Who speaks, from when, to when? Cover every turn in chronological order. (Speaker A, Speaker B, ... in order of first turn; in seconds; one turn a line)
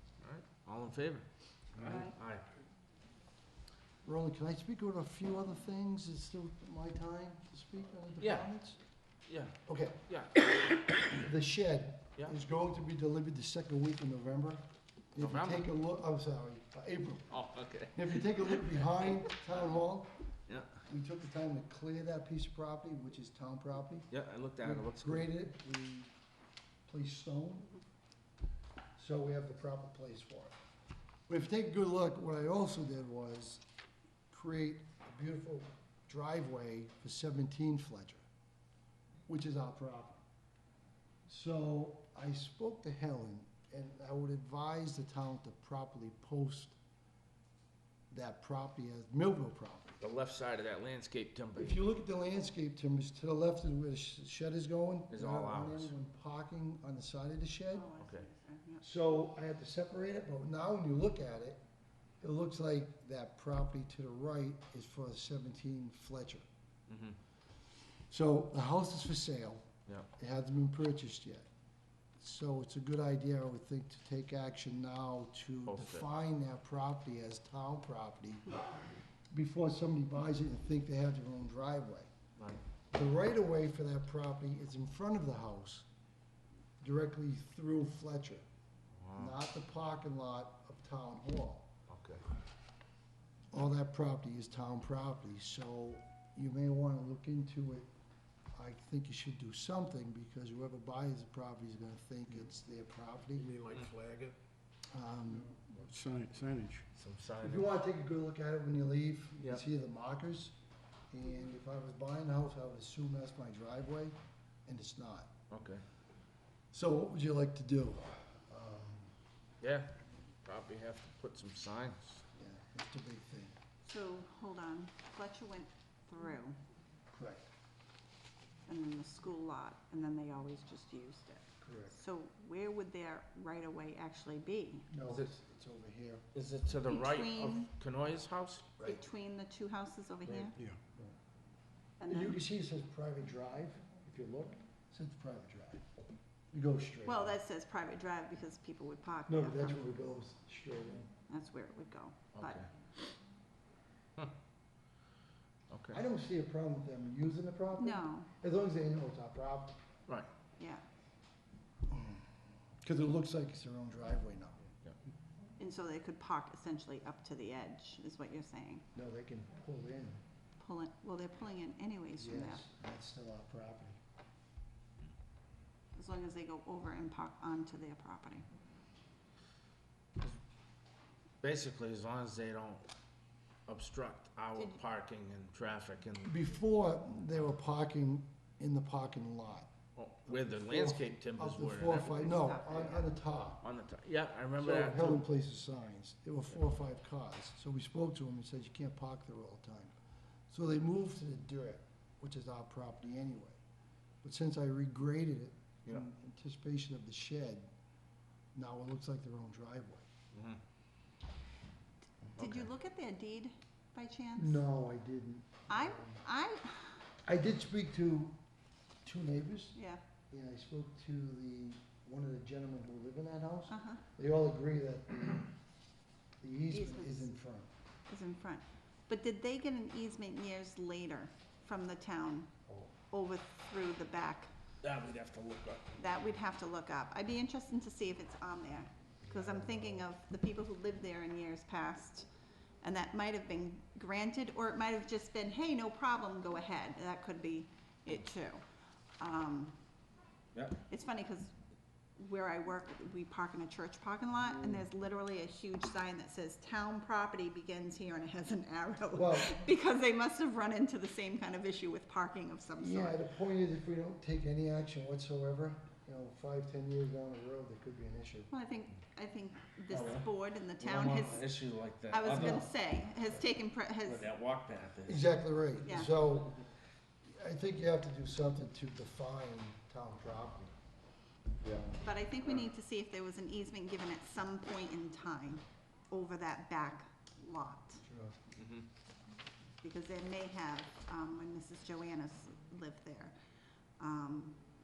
Speaker A: 0.2-2.5
Speaker B: 1.8-2.1
Speaker C: 4.0-8.8
Speaker A: 8.2-8.5
Speaker A: 9.3-11.1
Speaker C: 9.7-10.0
Speaker C: 11.1-17.4
Speaker A: 15.2-15.7
Speaker A: 17.3-19.3
Speaker C: 17.9-20.1
Speaker A: 20.5-20.7
Speaker C: 20.8-24.1
Speaker A: 24.1-25.3
Speaker C: 24.6-26.1
Speaker C: 26.9-27.8
Speaker C: 29.0-30.5
Speaker C: 31.3-33.6
Speaker C: 34.3-38.2
Speaker C: 39.3-40.2
Speaker C: 41.3-46.8
Speaker C: 48.1-50.0
Speaker A: 50.0-51.8
Speaker C: 51.5-57.9
Speaker A: 55.1-55.9
Speaker B: 57.7-58.9
Speaker A: 58.0-58.3
Speaker C: 58.8-61.6
Speaker C: 62.2-66.4
Speaker A: 66.9-67.2
Speaker C: 68.1-71.5
Speaker C: 72.2-78.6
Speaker A: 75.7-76.0
Speaker C: 79.3-82.1
Speaker C: 82.9-85.8
Speaker C: 86.8-88.4
Speaker A: 89.0-89.4
Speaker C: 89.2-91.7
Speaker A: 91.9-92.2
Speaker C: 93.5-97.9
Speaker C: 98.5-103.5
Speaker D: 103.3-104.3
Speaker C: 104.9-105.6
Speaker D: 105.5-106.8
Speaker A: 106.9-107.8
Speaker C: 107.4-110.5
Speaker C: 111.1-115.3
Speaker A: 115.5-115.8
Speaker C: 116.7-119.1
Speaker A: 119.6-119.9
Speaker A: 120.4-122.2
Speaker C: 122.3-123.6
Speaker B: 123.8-126.6
Speaker C: 127.1-127.5
Speaker B: 128.7-134.9
Speaker C: 131.6-131.9
Speaker C: 134.9-136.2
Speaker A: 135.1-135.3
Speaker A: 136.3-138.8
Speaker B: 136.8-137.7
Speaker B: 138.8-140.5
Speaker C: 140.3-141.1
Speaker B: 142.0-142.4
Speaker C: 142.1-145.8
Speaker C: 146.5-147.4
Speaker B: 147.0-149.9
Speaker C: 149.3-151.1
Speaker B: 151.3-152.6
Speaker A: 152.3-152.7
Speaker A: 155.7-156.0
Speaker C: 155.9-159.8
Speaker B: 157.8-158.3
Speaker B: 160.6-160.8
Speaker C: 161.9-164.6
Speaker B: 165.6-168.8
Speaker C: 168.9-170.2
Speaker B: 170.6-172.6
Speaker C: 172.2-174.0
Speaker B: 175.9-178.5
Speaker A: 181.4-182.8
Speaker A: 183.7-186.3
Speaker C: 186.2-189.7
Speaker A: 189.9-192.2
Speaker C: 190.3-193.6
Speaker B: 191.9-193.1
Speaker A: 193.6-195.2
Speaker C: 194.6-199.9
Speaker C: 200.5-203.6
Speaker C: 204.2-207.7
Speaker C: 208.5-210.0
Speaker A: 210.3-210.6
Speaker A: 212.3-212.7
Speaker B: 212.3-214.6
Speaker C: 214.4-216.2
Speaker B: 215.7-217.0
Speaker C: 217.2-218.4
Speaker C: 219.0-219.8
Speaker B: 219.7-220.0
Speaker C: 220.3-225.5
Speaker B: 223.7-224.0
Speaker C: 226.4-227.7
Speaker B: 226.7-227.3
Speaker B: 228.1-232.5
Speaker C: 232.7-232.9
Speaker B: 233.1-234.5
Speaker A: 234.8-235.9
Speaker B: 236.0-242.3
Speaker C: 239.2-240.1
Speaker B: 242.8-248.6
Speaker B: 249.2-249.8
Speaker B: 250.9-251.5
Speaker B: 252.2-263.2
Speaker C: 254.4-254.8
Speaker C: 259.1-259.6
Speaker C: 262.8-268.5
Speaker B: 268.5-271.5
Speaker A: 269.9-270.3
Speaker A: 270.8-272.7
Speaker B: 272.1-274.3
Speaker A: 274.0-275.3
Speaker C: 275.1-276.6
Speaker B: 275.8-276.2
Speaker C: 277.2-280.7
Speaker C: 281.6-282.0
Speaker B: 282.0-288.0
Speaker C: 288.0-288.4
Speaker A: 288.6-288.9
Speaker B: 289.8-293.3
Speaker B: 294.0-294.6